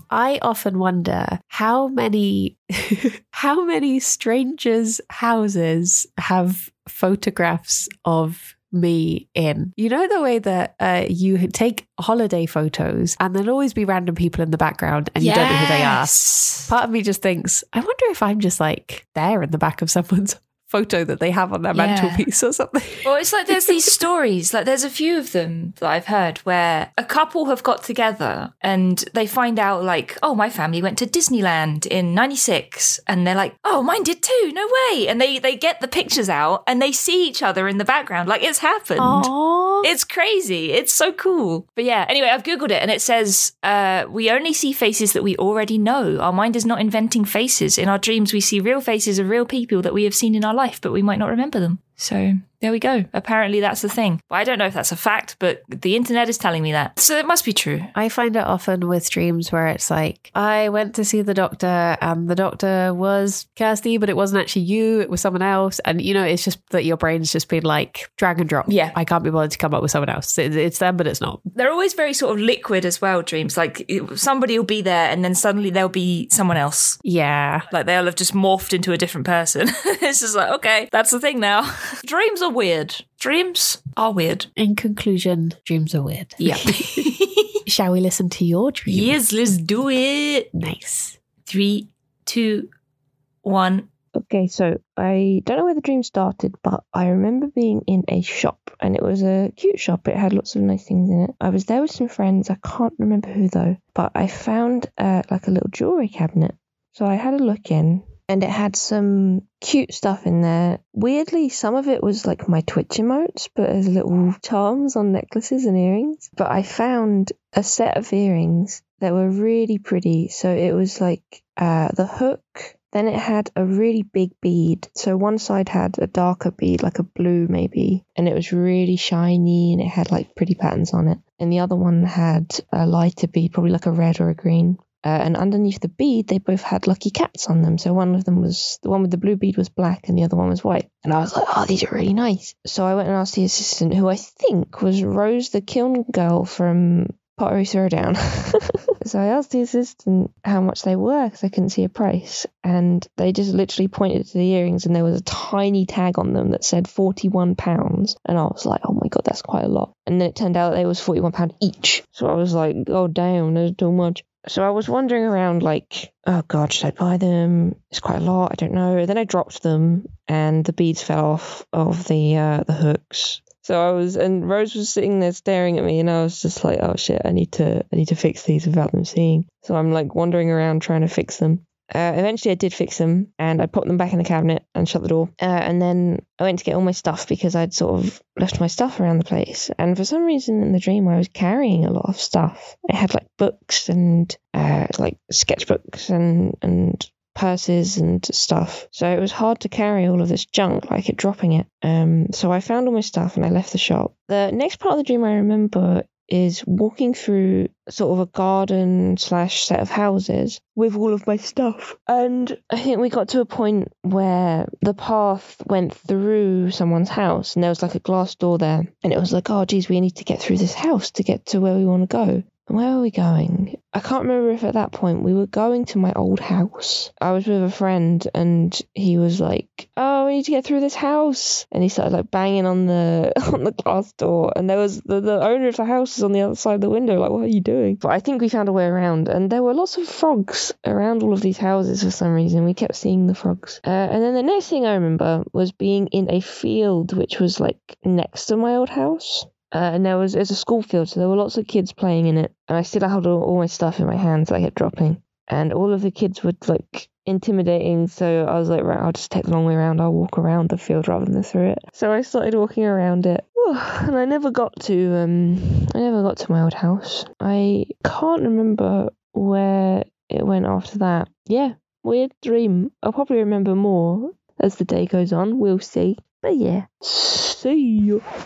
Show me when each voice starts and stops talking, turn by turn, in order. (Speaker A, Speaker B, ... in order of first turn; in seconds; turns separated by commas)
Speaker A: 0.1-23.8, Speaker B: 15.2-16.7, Speaker B: 21.7-22.3, Speaker B: 23.0-39.3, Speaker A: 39.0-39.9, Speaker B: 39.8-57.9, Speaker A: 57.9-71.4, Speaker B: 68.7-69.0, Speaker B: 71.5-77.0, Speaker A: 77.0-77.7, Speaker B: 77.7-84.5, Speaker A: 84.6-87.1, Speaker B: 86.4-87.6, Speaker A: 87.7-89.2, Speaker B: 88.9-90.5, Speaker A: 90.5-91.2, Speaker B: 91.5-92.7, Speaker B: 93.4-93.9, Speaker C: 94.1-278.2